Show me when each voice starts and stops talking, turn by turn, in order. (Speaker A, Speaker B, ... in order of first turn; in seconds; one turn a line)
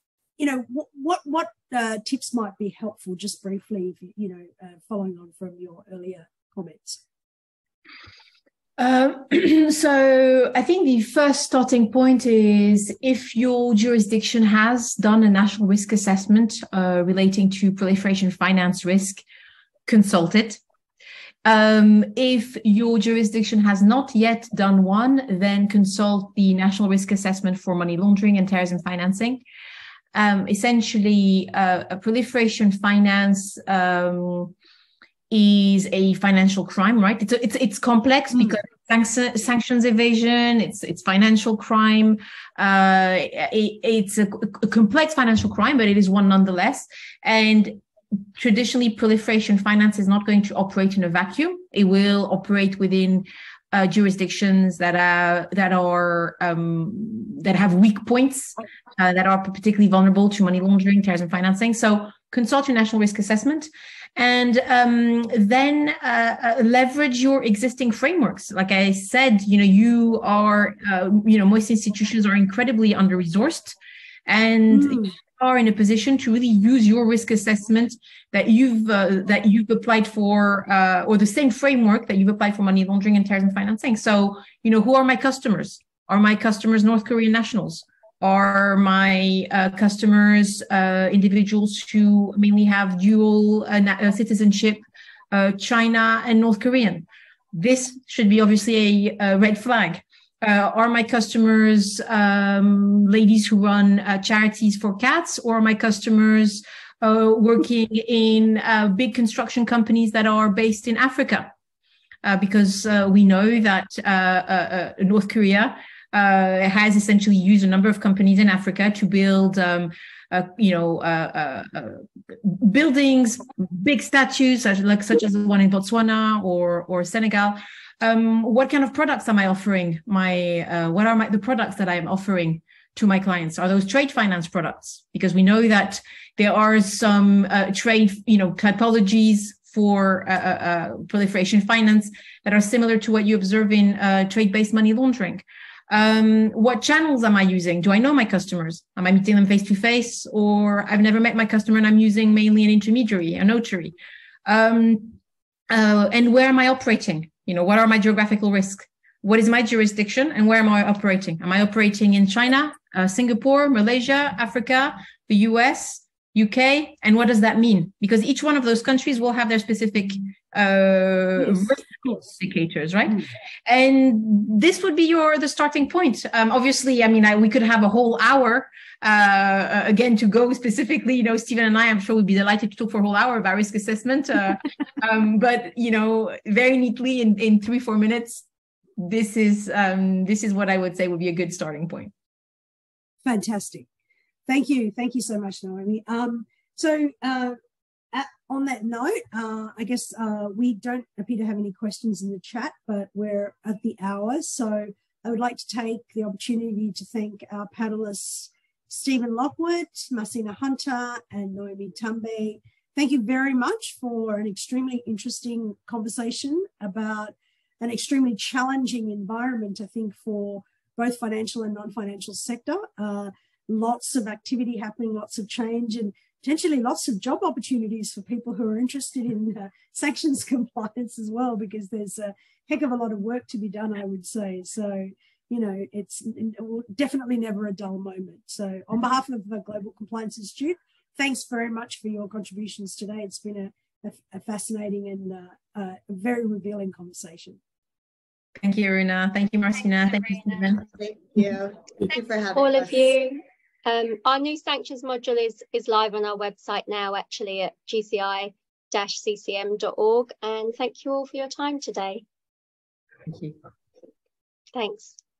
Speaker A: 0.4-7.0
Speaker B: 8.8-19.2
Speaker B: 19.9-20.6
Speaker B: 21.4-29.4
Speaker B: 30.1-34.5
Speaker B: 35.3-47.8
Speaker B: 48.4-73.8
Speaker B: 74.3-111.5
Speaker A: 74.7-75.1
Speaker B: 112.2-153.9
Speaker B: 154.4-155.2
Speaker B: 155.7-188.4
Speaker B: 189.0-192.1
Speaker A: 193.2-193.9
Speaker A: 194.5-197.6
Speaker A: 198.1-247.6
Speaker B: 248.6-250.8
Speaker C: 250.8-253.1
Speaker D: 252.6-262.2
Speaker B: 263.3-263.6
Speaker D: 264.7-265.1